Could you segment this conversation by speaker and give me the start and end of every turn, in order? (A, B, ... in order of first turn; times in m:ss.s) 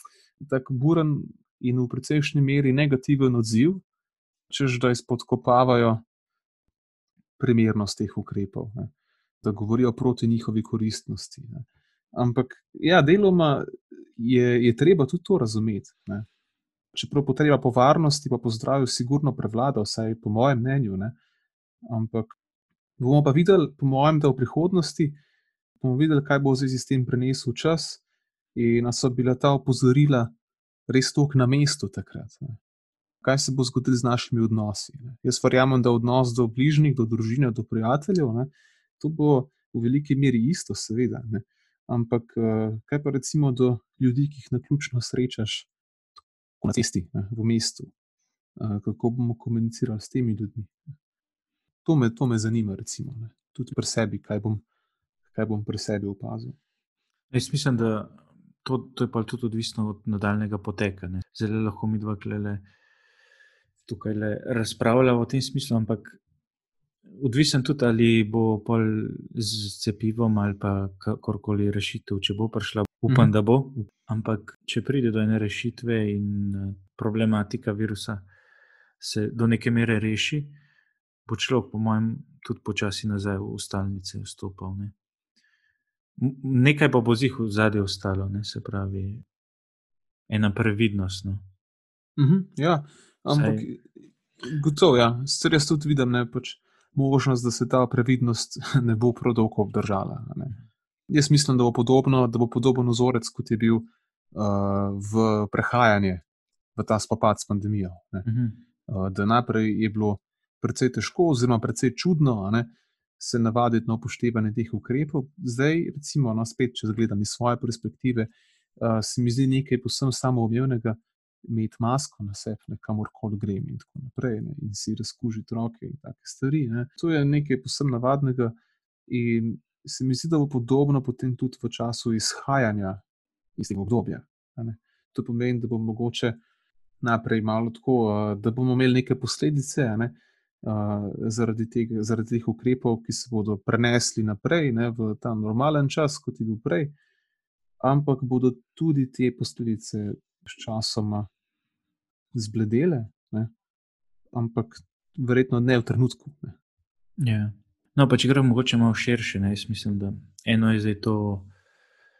0:00.4-0:03.8 A
0:04.5-0:06.0 A
0:07.4-0:16.3 A
0:16.9-0:21.2 A
0:21.8-0:22.3 A
0:23.0-0:25.2 A
0:25.8-0:28.0 A
0:28.5-0:30.3 A
0:30.9-0:32.6 A
0:33.2-0:45.7 A
0:46.6-0:47.9 A
0:48.6-0:50.7 A
0:51.8-0:54.6 A
0:55.3-0:56.6 A
0:57.3-1:02.7 B
1:03.8-1:06.2 B
1:07.2-1:18.2 B
1:19.0-1:20.6 B
1:21.2-1:24.9 B
1:26.2-1:29.2 B
1:30.3-1:31.4 B
1:32.2-1:40.6 A
1:33.3-1:33.6 B
1:41.1-1:46.2 A
1:46.8-1:48.2 A
1:48.2-1:48.6 B
1:48.9-2:08.6 A
2:09.1-2:13.0 A
2:13.6-2:16.4 A
2:17.0-2:26.9 A
2:27.8-2:31.3 A
2:32.3-2:33.5 A
2:34.3-2:36.6 A
2:37.2-2:41.5 B